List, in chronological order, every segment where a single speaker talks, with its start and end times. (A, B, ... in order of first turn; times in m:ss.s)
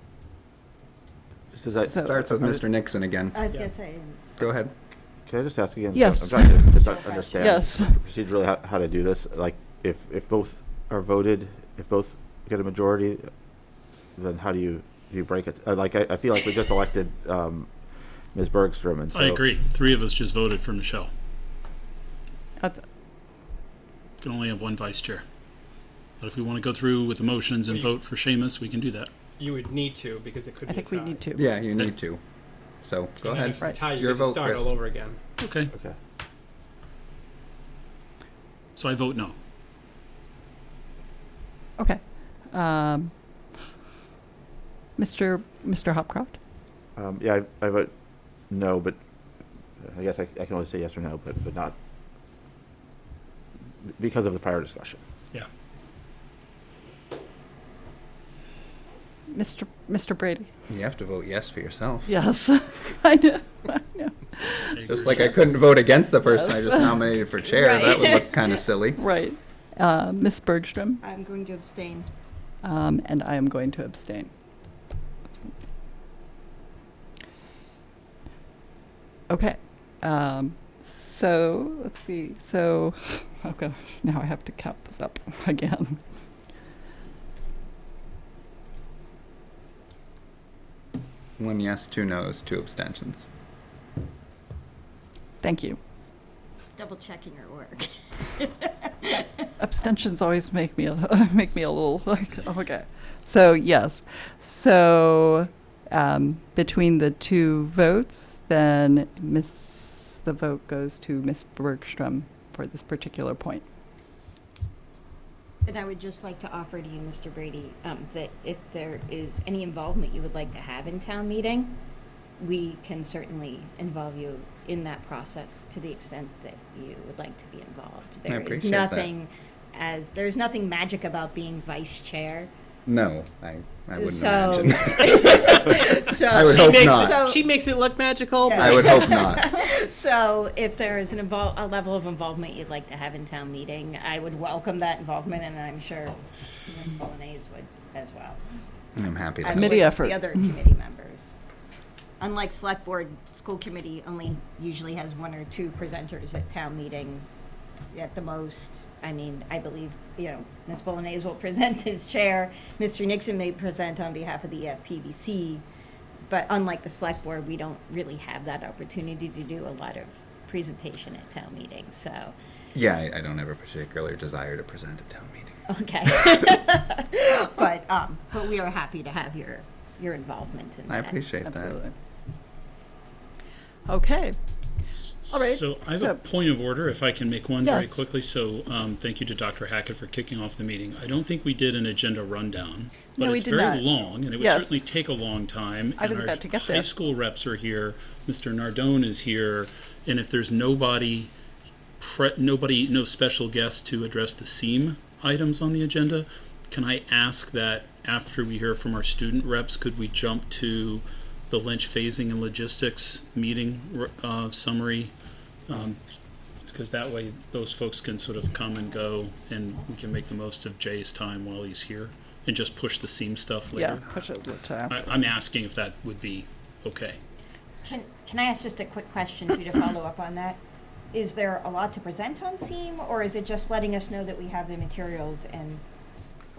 0:01.5-0:02.6 A
0:01.7-0:03.4 B
0:01.8-0:02.2 C
0:03.3-0:04.2 D
0:04.4-0:04.7 B
0:05.3-0:19.4 A
0:06.0-0:06.7 C
0:06.5-0:07.8 D
0:07.4-0:08.0 C
0:19.1-0:21.1 E
0:24.2-0:25.2 E
0:26.2-0:29.1 E
0:29.4-0:31.2 F
0:30.7-0:31.5 C
0:31.4-0:32.2 B
0:32.8-0:34.8 B
0:33.2-0:35.2 F
0:35.4-0:35.7 E
0:35.7-0:36.0 A
0:38.8-0:39.4 E
0:41.8-0:43.1 C
0:45.0-0:46.4 C
0:47.0-0:49.0 A
0:49.8-0:51.8 A
0:53.9-0:55.0 A
0:59.3-1:00.5 C
1:00.7-1:02.2 B
1:02.1-1:04.8 C
1:04.7-1:05.4 E
1:04.9-1:09.0 B
1:06.2-1:07.0 C
1:07.4-1:08.6 D
1:09.0-1:11.0 C
1:11.0-1:12.1 D
1:12.6-1:14.3 C
1:15.3-1:15.5 C
1:19.3-1:26.0 C
1:31.4-1:33.3 B
1:35.4-1:35.8 C
1:36.8-1:39.3 D
1:39.6-1:53.6 C
1:55.6-2:01.8 D
2:02.4-2:12.5 D
2:08.3-2:09.1 B
2:12.9-2:15.6 B
2:14.0-2:17.5 D
2:16.3-2:17.2 B
2:16.4-2:19.4 F
2:18.4-2:28.4 D
2:18.5-2:19.5 B
2:29.0-2:29.9 B
2:29.4-2:31.4 D
2:29.5-2:30.4 C
2:32.2-2:37.3 D
2:37.9-2:45.6 D
2:46.3-2:52.4 D
2:52.7-2:55.6 B
2:55.7-3:01.2 D
3:00.9-3:01.8 B
3:01.4-3:02.0 C
3:03.9-3:04.4 C
3:05.1-3:21.3 E
3:05.3-3:06.2 C
3:07.6-3:08.1 C
3:13.2-3:13.9 C
3:14.4-3:14.8 C
3:16.0-3:16.9 C
3:22.0-3:35.1 E
3:35.7-3:36.0 E
3:36.6-3:44.0 E
3:43.7-3:45.1 C
3:44.9-3:47.2 E
3:47.8-3:50.6 D
3:51.1-3:55.8 D